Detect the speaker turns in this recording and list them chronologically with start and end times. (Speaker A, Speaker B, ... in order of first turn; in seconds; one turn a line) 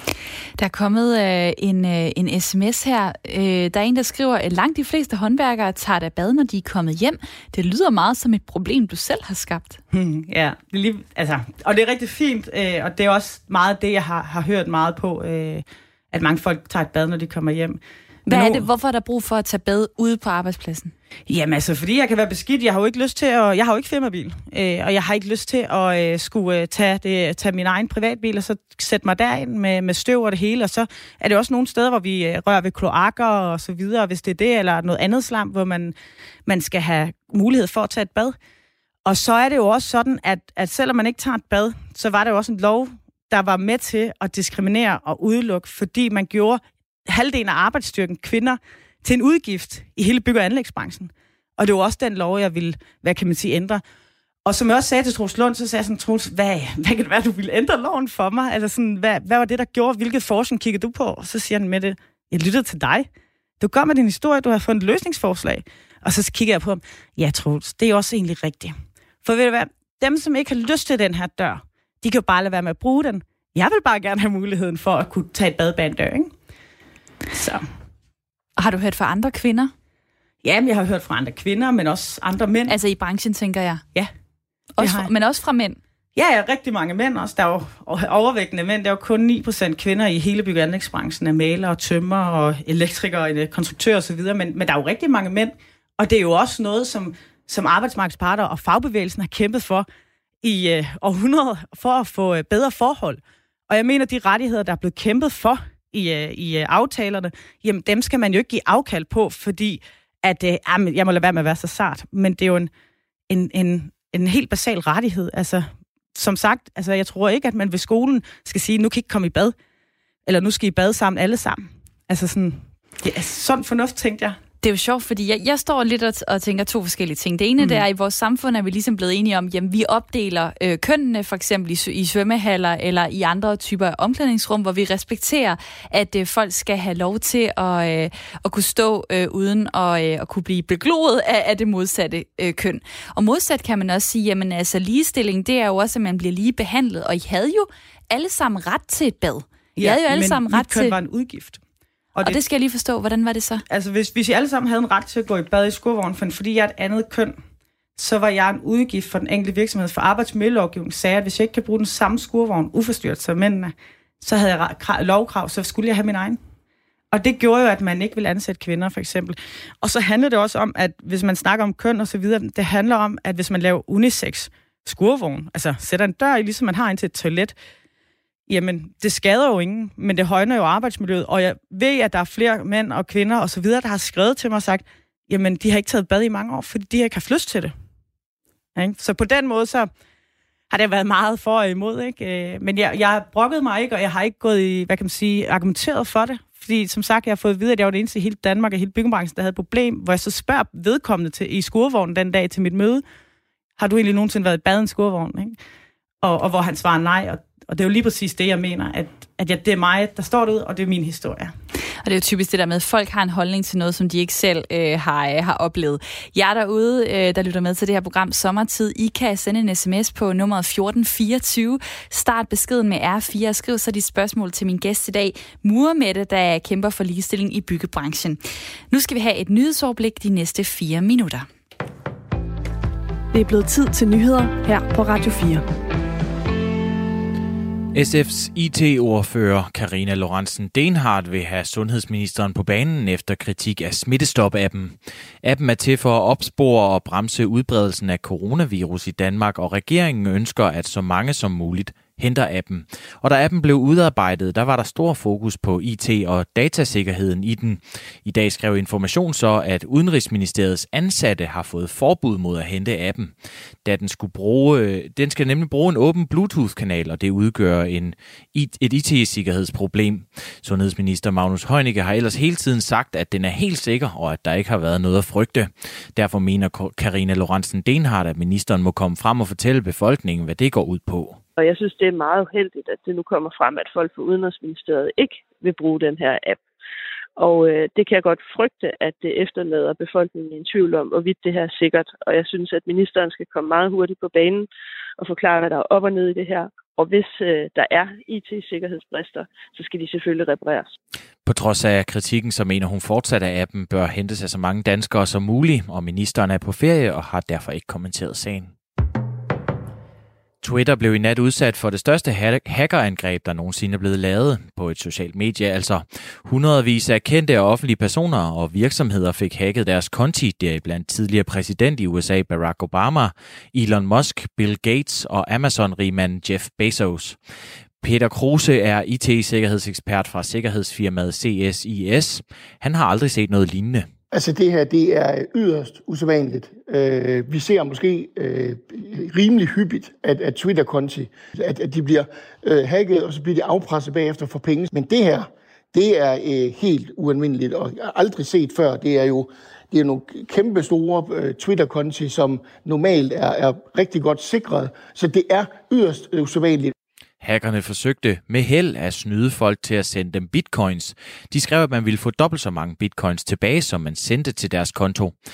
Speaker A: 0.6-9.8
Speaker B: 9.9-18.6
Speaker A: 18.3-20.9
Speaker B: 21.3-35.9
Speaker B: 36.5-38.4
Speaker B: 39.0-53.8
Speaker B: 54.4-63.1
Speaker B: 63.6-76.3
Speaker B: 77.3-77.6
Speaker A: 78.6-79.7
Speaker B: 80.4-82.8
Speaker A: 82.7-83.8
Speaker A: 84.8-85.8
Speaker B: 84.8-85.1
Speaker B: 86.1-99.9
Speaker B: 100.4-112.7
Speaker B: 113.3-119.5
Speaker B: 120.2-124.4
Speaker A: 124.6-150.9
Speaker B: 149.8-151.6
Speaker B: 152.1-152.4
Speaker A: 152.2-153.6
Speaker B: 153.7-157.3
Speaker B: 158.0-166.4
Speaker B: 167.1-177.5
Speaker B: 178.5-187.7
Speaker B: 188.8-189.9
Speaker B: 190.7-203.0
Speaker B: 203.8-205.6
Speaker B: 206.2-211.5
Speaker A: 212.0-228.4
Speaker A: 228.9-231.5
Speaker C: 233.3-235.7
Speaker D: 237.9-281.4
Speaker E: 281.6-286.6
Speaker E: 287.4-300.9
Speaker D: 301.4-308.7
Speaker D: 310.6-327.4
Speaker D: 328.0-334.1
Speaker F: 334.3-356.9
Speaker D: 357.4-365.3